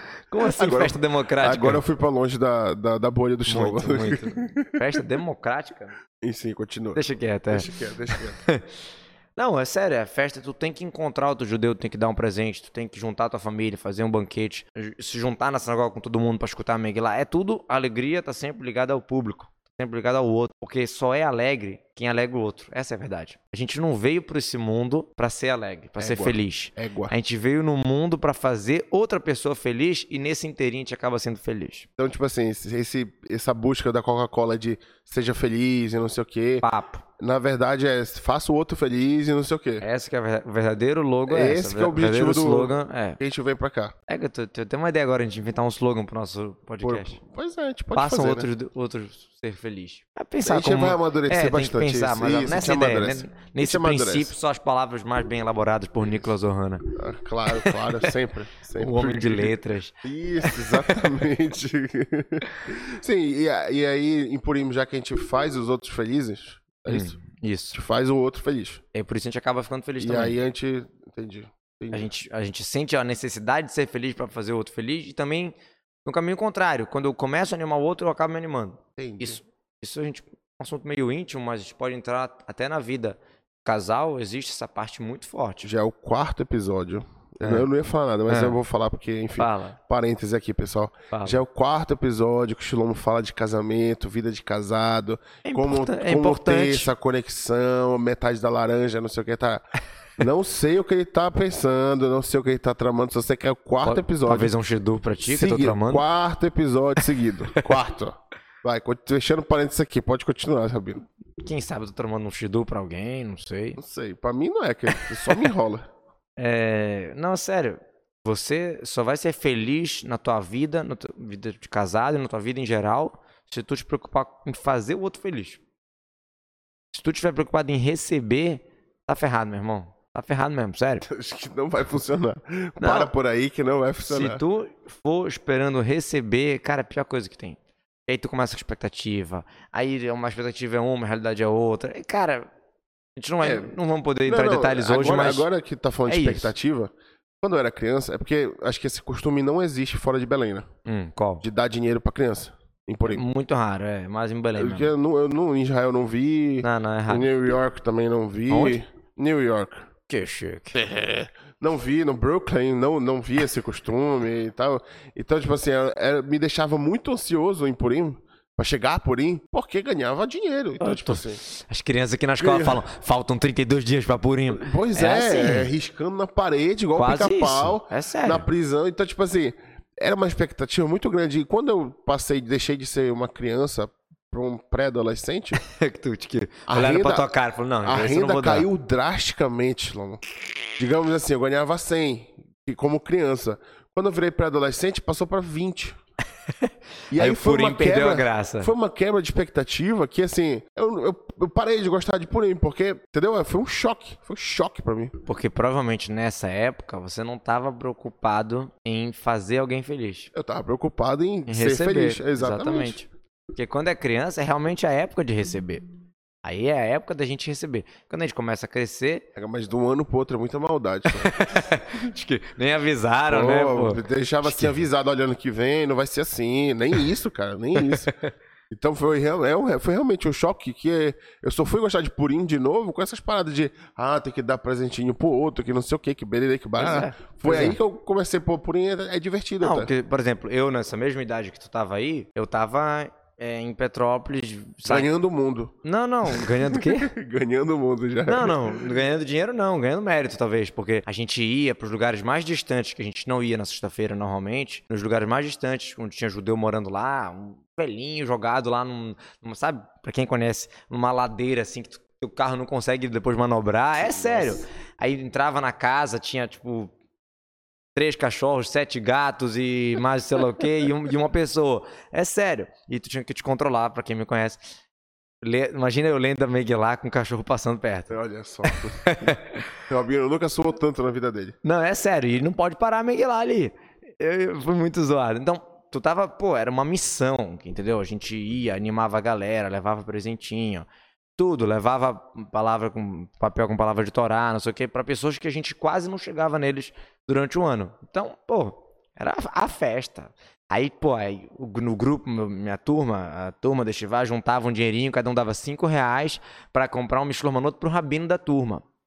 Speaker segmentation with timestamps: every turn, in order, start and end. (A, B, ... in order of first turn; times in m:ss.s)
0:00.3-0:01.8 A
0:00.4-0:04.8 B
0:03.5-0:06.0 A
0:06.2-0:08.4 B
0:07.0-0:08.6 A
0:09.4-0:31.9 A
0:26.0-0:27.1 B
0:32.0-0:36.6 B
0:36.6-0:37.0 A
0:37.2-0:39.9 B
0:39.8-0:43.2 A
0:41.3-0:43.9 B
0:44.1-0:47.2 A
0:46.8-0:48.5 B
0:47.9-0:56.9 A
0:50.4-0:54.3 B
0:57.0-1:07.2 B
0:57.5-0:58.1 A
0:58.8-1:01.1 A
1:06.9-1:07.8 A
1:07.7-1:08.8 B
1:08.9-1:10.4 A
1:10.0-1:12.1 B
1:11.9-1:25.7 A
1:19.0-1:19.4 B
1:25.6-1:39.6 B
1:27.4-1:27.7 A
1:28.3-1:28.6 A
1:29.4-1:29.8 A
1:31.1-1:31.4 A
1:35.4-1:36.9 A
1:40.2-1:44.5 B
1:43.8-1:46.0 A
1:45.2-1:51.0 B
1:51.4-1:53.8 A
1:53.8-1:55.8 B
1:54.9-1:55.4 A
1:56.4-2:05.6 A
2:06.9-2:11.1 A
2:11.1-2:14.4 B
2:12.8-2:13.1 A
2:14.1-2:22.5 A
2:23.2-2:25.5 A
2:23.4-2:23.7 B
2:24.2-2:30.6 B
2:26.1-2:26.5 A
2:30.9-2:31.4 A
2:31.4-2:33.2 B
2:33.1-2:34.9 A
2:34.6-2:39.8 B
2:36.6-2:37.3 A
2:38.5-2:38.8 A
2:40.1-2:40.8 A
2:40.7-2:51.4 B
2:50.8-2:55.7 A
2:52.4-2:52.8 B
2:54.5-3:05.6 B
2:57.0-2:58.5 A
3:05.6-3:08.7 A
3:06.7-3:07.3 B
3:07.8-3:10.2 B
3:10.8-3:16.0 B
3:16.6-3:18.7 A
3:17.1-3:25.1 B
3:25.2-3:30.3 A
3:30.3-3:33.0 B
3:31.5-3:35.8 A
3:36.4-3:39.2 A
3:39.4-3:41.4 B
3:41.1-3:44.8 A
3:43.3-3:48.1 B
3:47.8-3:48.3 A
3:48.7-3:59.9 B
3:56.8-3:57.8 A
3:59.6-4:05.1 A
4:04.8-4:05.7 B
4:05.8-4:07.1 A
4:06.3-4:09.0 B
4:08.2-4:26.9 A
4:24.0-4:24.6 B
4:28.0-4:34.6 A
4:35.4-4:39.7 A
4:38.1-4:41.5 B
4:41.6-5:08.8 A